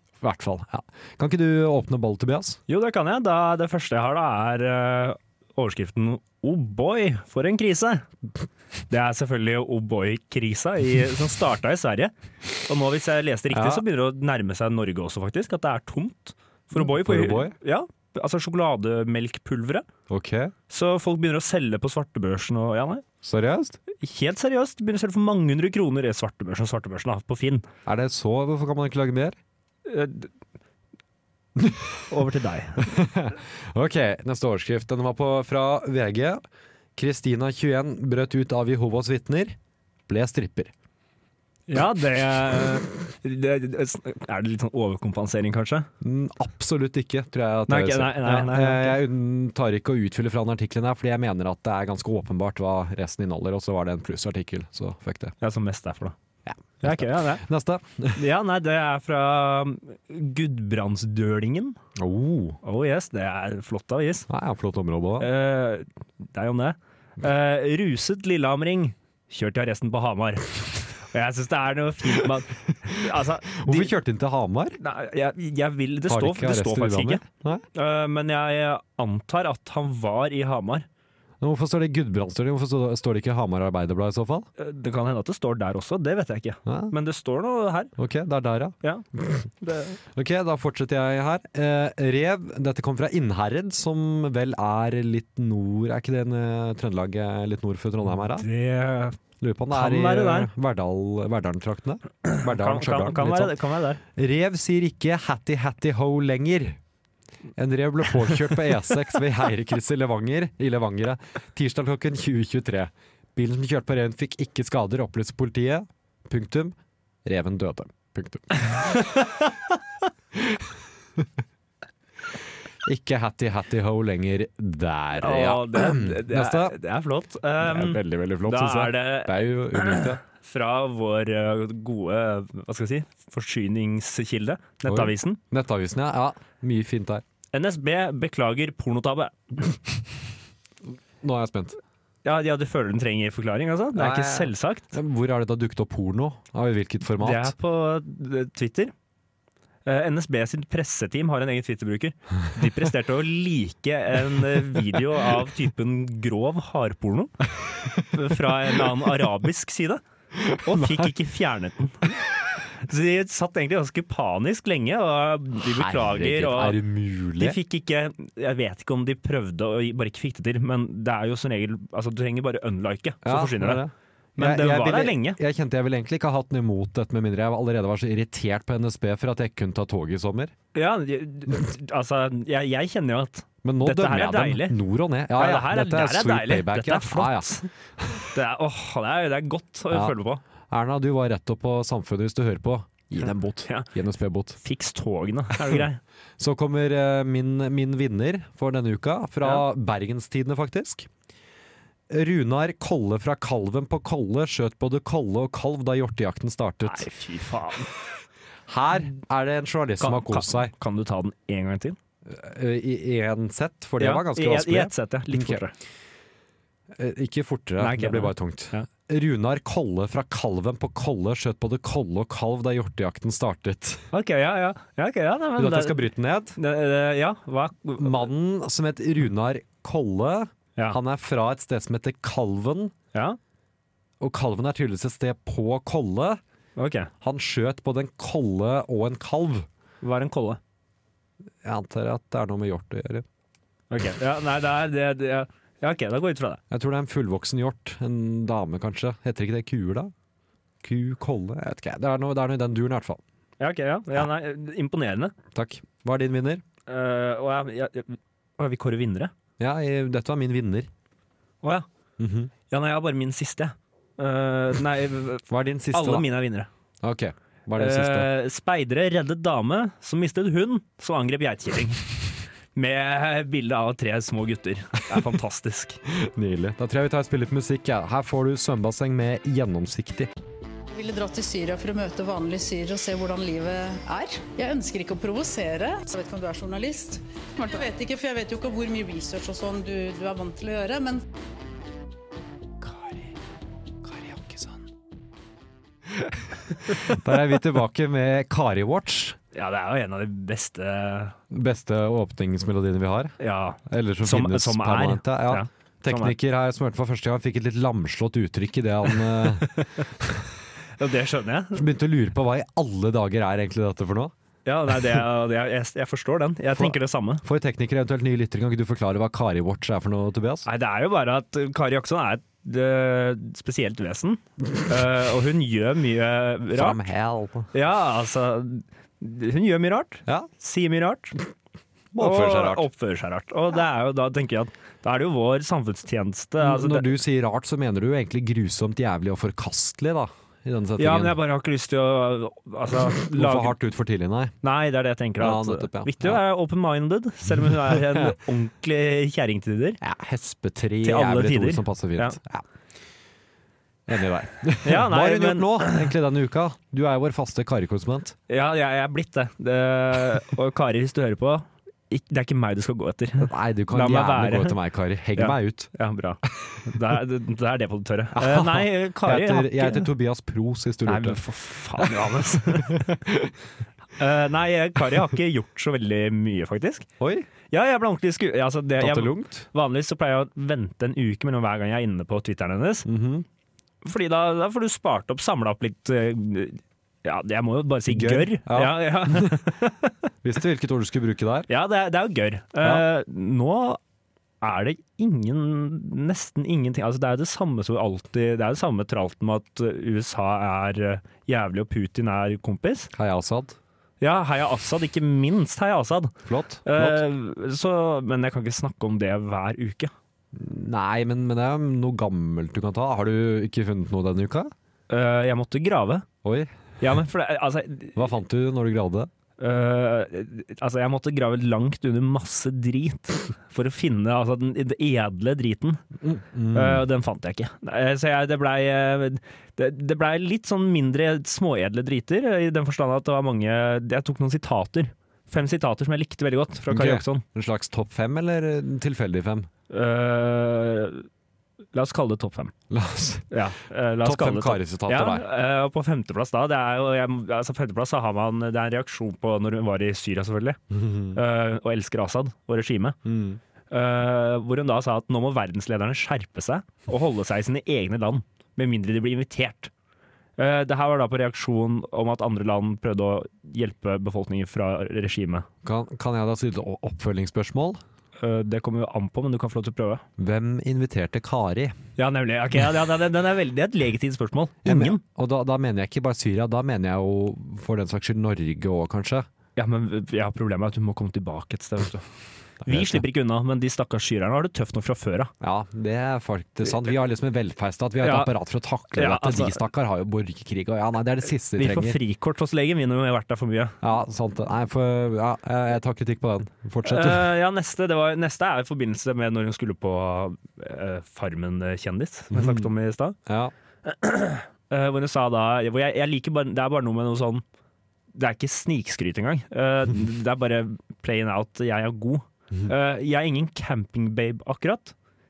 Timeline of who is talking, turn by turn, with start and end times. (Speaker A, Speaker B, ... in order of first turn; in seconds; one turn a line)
Speaker A: 0.2-2.6
Speaker B: 2.7-8.1
Speaker B: 8.9-12.1
Speaker B: 12.7-19.8
Speaker A: 13.5-13.8
Speaker A: 16.7-17.5
Speaker A: 20.1-20.5
Speaker B: 20.7-23.0
Speaker A: 23.2-23.8
Speaker B: 23.9-27.7
Speaker A: 27.9-29.4
Speaker B: 29.9-30.3
Speaker A: 31.6-32.0
Speaker B: 32.1-32.9
Speaker A: 32.8-36.4
Speaker A: 37.0-39.5
Speaker A: 40.1-40.7
Speaker B: 41.7-45.9
Speaker A: 46.0-55.3
Speaker B: 47.7-49.0
Speaker B: 55.4-56.1
Speaker A: 56.4-58.2
Speaker B: 56.8-57.4
Speaker B: 58.1-61.8
Speaker A: 62.0-62.6
Speaker B: 62.6-64.3
Speaker A: 64.3-65.3
Speaker B: 65.2-73.9
Speaker A: 73.5-74.8
Speaker B: 74.8-77.2
Speaker A: 76.1-77.6
Speaker B: 77.7-80.8
Speaker A: 81.4-84.5
Speaker B: 84.6-87.9
Speaker A: 86.7-86.9
Speaker A: 88.0-89.4
Speaker B: 89.6-90.0
Speaker A: 90.1-98.5
Speaker B: 98.4-99.2
Speaker A: 99.4-103.5
Speaker B: 99.7-100.5
Speaker B: 102.2-104.0
Speaker A: 104.1-106.8
Speaker A: 107.5-119.3
Speaker B: 118.7-119.3
Speaker A: 120.3-121.3
Speaker A: 122.8-126.8
Speaker B: 125.2-135.4
Speaker A: 127.6-130.2
Speaker A: 134.8-137.2
Speaker B: 137.5-139.7
Speaker A: 141.2-141.8
Speaker B: 142.2-144.9
Speaker A: 143.9-147.5
Speaker B: 147.2-148.9
Speaker B: 149.8-157.3
Speaker B: 158.1-160.0
Speaker A: 160.4-161.1
Speaker B: 160.6-162.1
Speaker B: 162.8-166.8
Speaker A: 165.6-167.6
Speaker B: 167.4-173.8
Speaker A: 173.2-180.5
Speaker B: 174.4-175.4
Speaker B: 180.7-184.8
Speaker A: 183.6-188.3
Speaker B: 185.3-187.7
Speaker B: 188.3-190.4
Speaker A: 190.7-194.6
Speaker B: 194.6-196.0
Speaker A: 195.6-195.8
Speaker A: 196.4-201.1
Speaker A: 202.1-207.1
Speaker B: 206.8-207.9
Speaker A: 208.7-210.7
Speaker B: 210.0-212.0
Speaker A: 212.2-215.6
Speaker B: 214.0-215.7
Speaker A: 216.9-224.1
Speaker B: 217.8-218.9
Speaker B: 224.1-226.0
Speaker A: 225.6-226.6
Speaker B: 226.6-228.2
Speaker A: 228.0-232.9
Speaker A: 234.2-236.4
Speaker B: 236.8-237.1
Speaker A: 237.2-239.7
Speaker B: 240.0-240.6
Speaker A: 241.6-243.2
Speaker B: 243.9-246.6
Speaker A: 246.7-250.1
Speaker A: 250.8-253.2
Speaker B: 253.6-255.3
Speaker A: 255.5-256.6
Speaker B: 256.9-259.3
Speaker A: 259.6-260.9
Speaker A: 262.2-262.5
Speaker B: 262.7-266.7
Speaker A: 265.5-266.3
Speaker A: 267.0-268.3
Speaker B: 267.8-272.0
Speaker B: 272.7-276.0
Speaker A: 276.1-280.3
Speaker C: 280.9-291.2
Speaker B: 294.2-294.7
Speaker A: 296.1-299.4
Speaker B: 299.5-301.4
Speaker A: 301.5-303.3
Speaker B: 303.4-306.3
Speaker A: 303.9-310.5
Speaker B: 309.4-309.9
Speaker B: 311.0-311.9
Speaker A: 311.7-314.3
Speaker B: 314.6-317.4
Speaker A: 316.7-320.6
Speaker B: 320.6-327.0
Speaker A: 326.7-327.7
Speaker B: 327.7-331.3
Speaker A: 332.1-332.9
Speaker B: 332.2-337.1
Speaker A: 336.6-341.4
Speaker B: 341.0-343.8
Speaker A: 343.1-344.5
Speaker B: 344.6-350.0
Speaker A: 345.4-346.4
Speaker A: 347.6-348.3
Speaker A: 350.0-352.6
Speaker B: 351.0-352.4
Speaker A: 354.1-358.4
Speaker B: 354.8-356.1
Speaker B: 358.5-364.8
Speaker A: 363.4-365.9
Speaker B: 365.4-370.1
Speaker A: 368.3-371.4
Speaker B: 371.1-373.1
Speaker A: 372.0-373.5
Speaker B: 374.2-377.1
Speaker A: 377.2-377.5
Speaker B: 377.7-383.1
Speaker A: 379.0-379.7
Speaker A: 383.1-383.4
Speaker B: 384.0-390.1
Speaker A: 388.1-389.6
Speaker A: 390.4-391.7
Speaker B: 391.7-394.0
Speaker B: 394.6-403.1
Speaker A: 403.1-403.8
Speaker B: 404.2-410.1
Speaker A: 406.4-407.2
Speaker A: 410.5-414.7
Speaker B: 415.1-416.2
Speaker A: 416.4-416.7
Speaker B: 417.0-418.2
Speaker A: 418.1-419.3
Speaker B: 419.6-426.0
Speaker A: 426.2-427.0
Speaker B: 426.7-437.4
Speaker A: 436.9-439.7
Speaker B: 439.9-441.3
Speaker B: 441.9-442.7
Speaker A: 442.9-443.5
Speaker B: 443.5-450.8
Speaker A: 444.2-445.5
Speaker A: 450.9-451.4
Speaker B: 451.3-453.2
Speaker A: 453.2-453.6
Speaker B: 453.9-459.9
Speaker B: 460.6-465.7
Speaker A: 465.8-468.0
Speaker B: 468.4-470.2
Speaker A: 470.4-471.9
Speaker B: 472.2-475.2
Speaker A: 474.8-479.5
Speaker B: 479.8-482.2
Speaker A: 482.8-483.2
Speaker B: 482.9-485.5
Speaker A: 485.6-492.2
Speaker B: 488.2-488.5
Speaker B: 489.1-489.8
Speaker B: 491.8-494.0
Speaker A: 494.0-497.5
Speaker B: 497.0-503.4
Speaker A: 502.5-502.9
Speaker A: 503.4-503.7
Speaker B: 504.0-507.6
Speaker B: 508.3-515.1